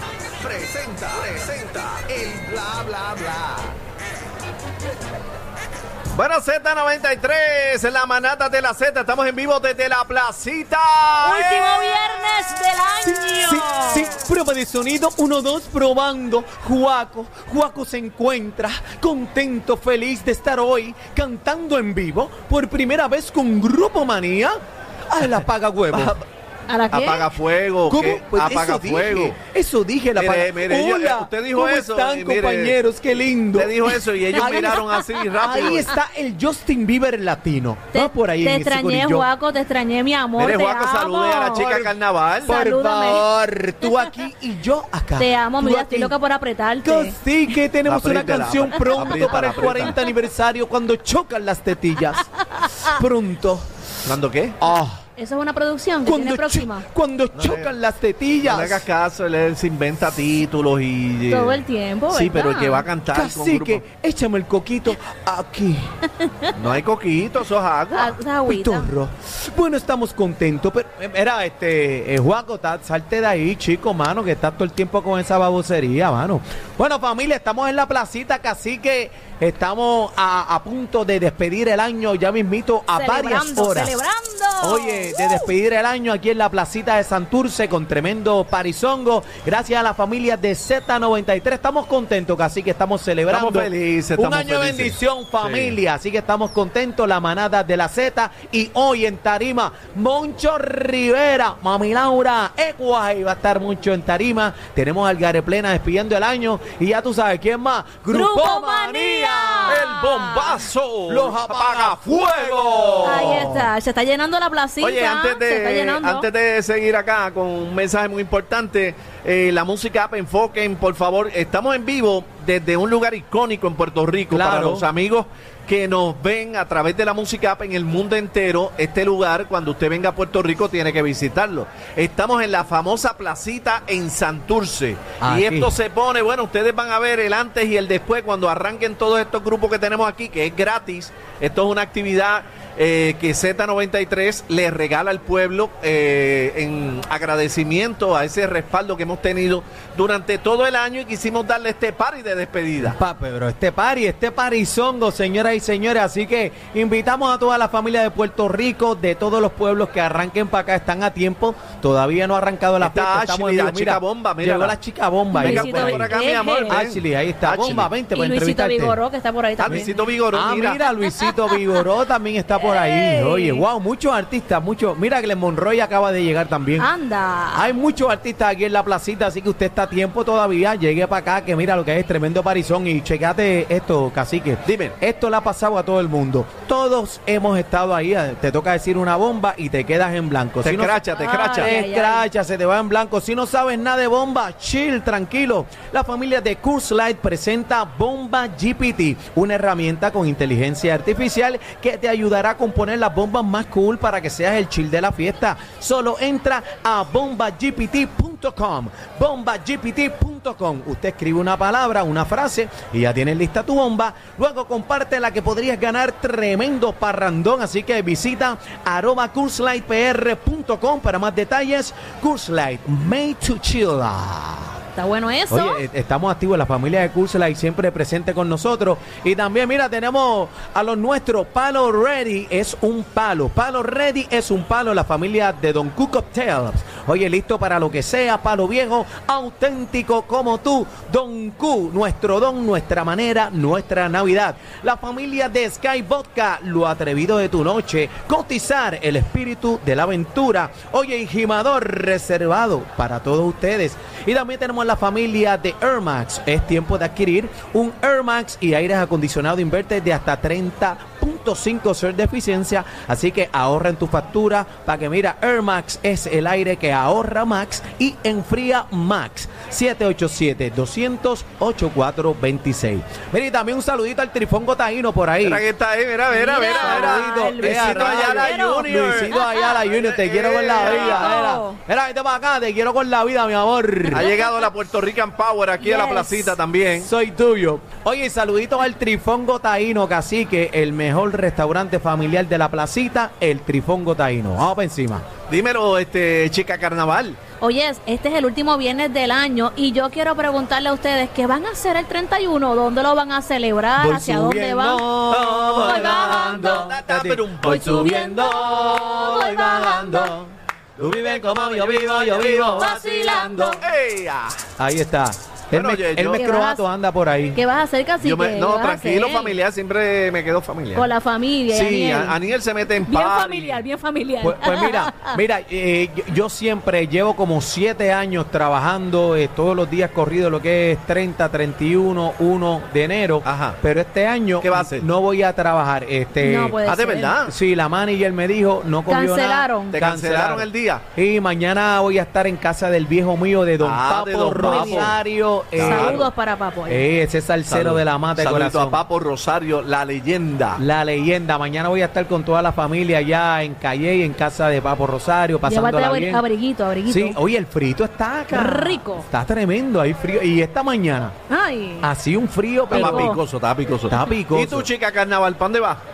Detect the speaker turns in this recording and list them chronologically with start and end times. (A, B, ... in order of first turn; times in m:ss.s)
0:00.4-0:03.7 A
0:06.1-0:11.9 B
0:11.2-0:14.1 C
0:13.0-0:24.6 D
0:25.1-0:26.2 D
0:25.9-0:26.2 B
0:26.7-0:27.3 C
0:26.9-0:29.4 B
0:27.9-0:34.8 D
0:30.2-0:32.8 B
0:33.5-0:35.9 B
0:34.4-0:35.9 C
0:35.4-0:39.3 D
0:37.9-0:41.8 C
0:40.4-0:42.6 B
0:41.6-0:46.2 D
0:42.4-0:43.3 C
0:43.9-0:44.1 C
0:45.2-0:47.2 C
0:46.8-0:53.7 D
0:47.8-0:50.0 B
0:48.9-0:50.1 C
0:52.4-0:52.9 C
0:54.0-0:54.6 B
0:54.6-0:55.0 D
0:55.2-0:56.9 C
0:56.0-0:58.8 D
0:57.3-0:57.8 B
0:58.4-1:03.8 B
1:01.3-1:02.9 C
1:03.1-1:06.0 D
1:06.2-1:06.5 C
1:06.5-1:08.1 B
1:07.9-1:08.9 C
1:08.5-1:24.0 D
1:22.9-1:25.5 C
1:24.6-1:49.9 D
1:33.3-1:35.8 B
1:48.1-1:50.6 C
1:49.7-1:53.6 B
1:51.1-1:53.7 D
1:53.0-1:56.3 C
1:54.8-2:33.0 B
2:04.3-2:04.9 D
2:15.2-2:15.8 D
2:32.8-2:46.2 D
2:42.8-2:44.8 B
2:45.3-2:46.8 C
2:45.4-2:48.0 B
2:46.7-2:49.0 D
2:48.1-2:50.1 C
2:49.6-2:50.8 B
2:49.6-2:56.9 D
2:51.2-2:51.8 C
2:52.6-2:53.6 C
2:56.8-2:57.7 C
2:57.5-3:11.0 D
3:04.7-3:05.0 B
3:10.6-3:11.8 B
3:11.1-3:12.3 C
3:11.5-3:44.8 D
3:45.0-3:45.8 C
3:45.5-4:35.6 D
4:35.4-4:41.4 B
4:36.3-4:39.7 C
4:36.8-4:44.3 D
4:40.8-4:41.8 C
4:44.1-4:44.7 C
4:44.1-4:47.1 B
4:45.8-4:46.6 C
4:47.0-4:55.3 D
4:55.5-4:57.4 B
4:57.6-5:05.1 C
5:04.0-5:13.8 D
5:05.5-5:08.0 B
5:05.6-5:07.0 C
5:07.6-5:10.3 C
5:11.0-5:12.8 B
5:12.4-5:13.8 C
5:13.6-5:14.6 B
5:14.8-5:17.6 D
5:15.7-5:16.5 B
5:16.3-5:16.8 C
5:17.5-5:19.6 C
5:18.2-5:21.1 B
5:20.9-5:22.4 C
5:21.7-5:23.8 B
5:23.0-5:25.4 C
5:24.4-5:36.8 D
5:33.4-5:33.8 B
5:34.6-5:35.1 B
5:36.4-5:37.4 C
5:36.8-5:37.6 B
5:37.4-5:46.3 D
5:39.1-5:40.0 C
5:39.9-5:41.0 B
5:43.8-5:45.2 B
5:44.6-5:45.2 C
5:45.8-5:46.3 B
5:45.8-5:47.1 C
5:46.9-5:49.0 D
5:47.7-5:50.8 B
5:50.8-5:56.4 D
5:55.6-5:57.4 C
5:57.1-6:01.4 D
5:58.5-5:59.3 C
6:01.5-6:02.1 C
6:02.0-6:03.3 D
6:02.9-6:03.4 C
6:02.9-6:06.0 B
6:04.1-6:04.9 D